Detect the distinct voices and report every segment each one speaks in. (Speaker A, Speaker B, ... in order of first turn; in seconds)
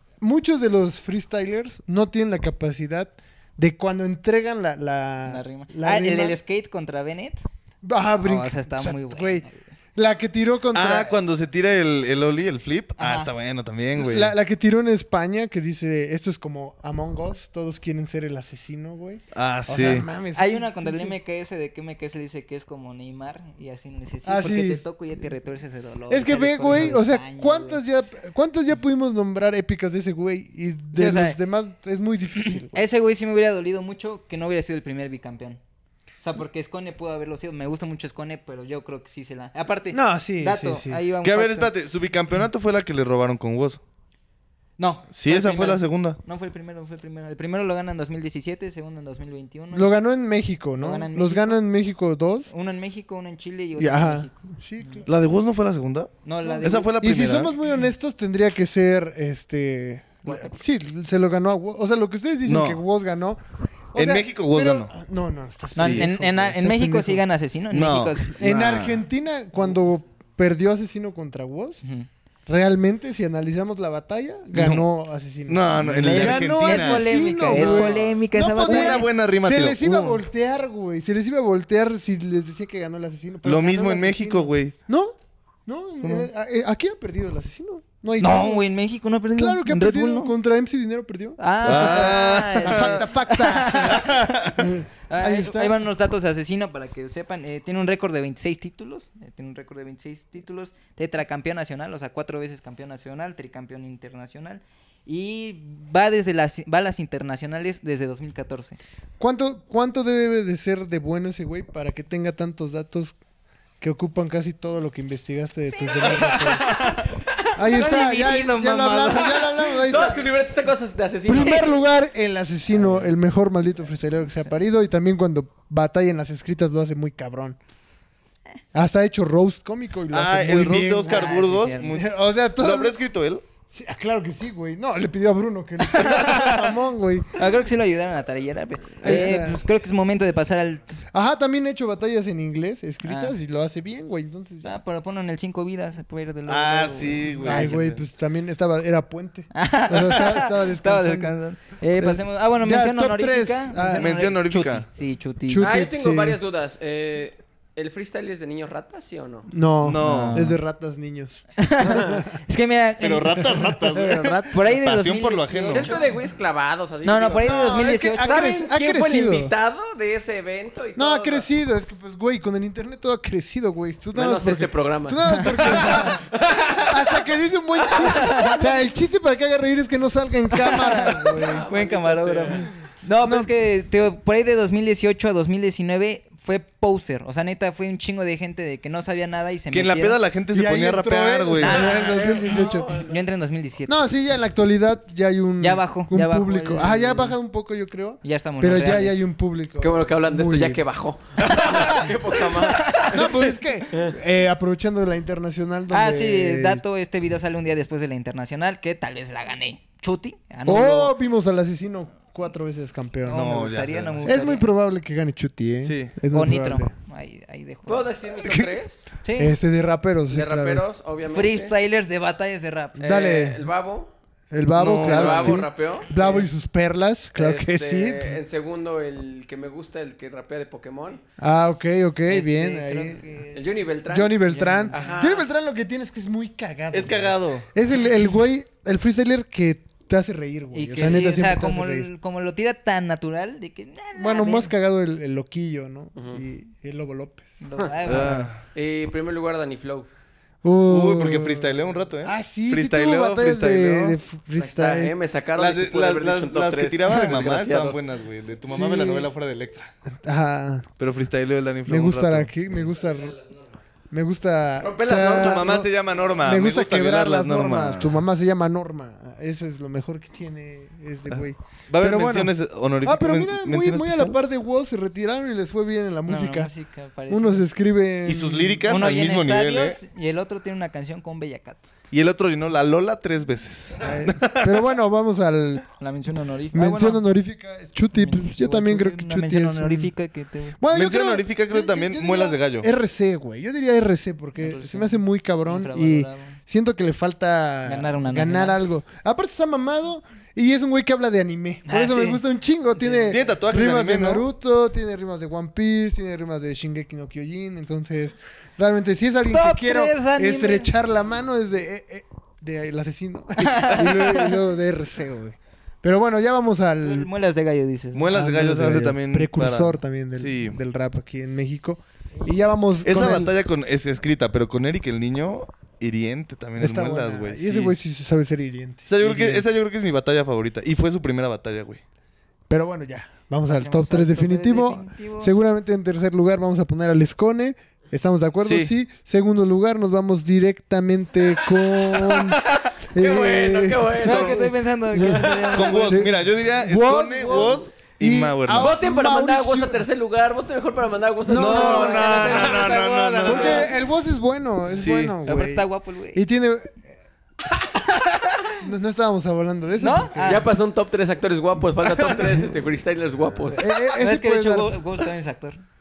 Speaker A: 0.2-6.4, 7.8-11.2, 14.0-21.1, 24.2-24.9, 26.1-32.8, 39.9-41.0, 49.7-52.5, 53.8-55.1, 56.5-63.4, 63.9-67.2, 68.4-71.8, 72.5-85.1, 85.7-88.7, 89.3-95.8, 109.2-113.2, 113.8-116.8, 117.6-120.2, 121.3-127.6, 128.7-133.0, 133.7-137.3, 139.0-139.6, 141.1-144.8, 147.4-151.4, 152.0-154.2, 155.5-156.4, 159.5-162.3, 163.5-164.6, 167.4-169.5, 171.0-176.2, 176.8-181.7, 183.2-183.5, 190.5-192.9, 193.9-200.8, 203.1-206.8, 210.7-213.6, 214.2-216.9, 219.3-220.8, 223.0-223.7, 224.5-228.4, 231.4-233.2, 234.1-242.1, 244.2-248.5, 250.6-255.1, 258.7-259.3, 260.1-260.9, 261.9-263.4, 264.1-265.9, 266.4-276.7, 277.3-279.1, 284.0-285.9, 286.7-290.1, 290.8-317.3, 318.3-323.5, 326.8-329.6, 332.7-345.4, 346.0-350.1, 351.5-352.7, 353.4-357.0, 358.8-360.7, 363.7-364.9
Speaker B: 5.3-7.4, 8.2-9.7, 13.0-13.3, 20.3-27.8, 30.9-31.4, 32.7-35.6, 36.2-41.7, 44.8-50.0, 50.8-51.6, 52.5-55.1, 56.2-57.0, 60.2-60.6, 65.8-68.4, 75.9-79.1, 88.2-90.3, 91.4-94.4, 95.1-108.8, 115.7-117.0, 117.7-119.9, 131.0-132.0, 136.0-136.5, 137.4-141.0, 143.0-143.3, 144.6-147.9, 149.5-155.7, 160.0-160.6, 161.6-163.5, 164.5-166.1, 167.0-168.5, 178.2-178.5, 181.7-190.2, 191.6-193.9, 195.6-197.4, 198.2-199.2, 202.9-203.2, 205.9-211.2, 213.3-214.7, 216.3-218.1, 219.2-219.5, 221.3-223.1, 232.3-233.8, 234.4-235.4, 240.7-244.7, 247.6-248.5, 276.3-277.7, 278.9-281.8, 286.0-287.2, 288.1-290.8, 294.6-296.6, 297.9-298.8, 301.9-302.4, 303.0-303.4, 309.5-310.9, 313.7-314.4, 317.0-318.3, 333.7-335.5, 344.2-346.2, 351.9-354.0, 355.4-356.4, 358.1-358.5, 360.0-360.7, 363.9-365.8
Speaker C: 10.7-14.3, 19.3-20.1, 41.2-43.8, 45.1-46.2, 55.1-57.5, 62.4-62.8, 63.9-64.9, 65.8-66.1, 67.7-69.0, 74.5-74.9, 75.5-80.2, 83.4-84.8, 86.0-86.3, 91.6-93.0, 93.9-94.7, 130.1-133.4, 146.5-148.0, 153.9-154.9, 159.8-160.6, 163.0-166.0, 189.7-191.8, 201.4-201.8, 213.3-214.5, 215.8-216.1, 224.7-225.7, 236.9-237.7, 248.1-248.6, 250.9-254.2, 255.6-259.9, 261.0-262.5, 265.4-268.2, 271.3-274.4, 278.2-280.0, 282.1-285.0, 290.9-292.9, 303.3-304.5, 318.1-320.8, 323.0-328.0, 329.1-332.0, 338.6-338.9, 345.7-349.0, 351.5-353.9, 354.9-355.4
Speaker D: 119.8-121.8, 155.6-159.5, 161.9-162.2, 165.7-171.5, 174.1-177.3, 177.8-178.8, 181.2-182.7, 191.7-193.2, 199.8-204.2, 217.9-219.1, 220.3-221.7, 223.0-224.1, 225.0-226.5, 227.3-231.2, 233.5-235.5, 246.2-246.4, 248.6-250.1, 254.6-258.0, 264.8-265.9, 343.1-346.1, 347.4-347.7, 348.8-353.9, 360.4-363.9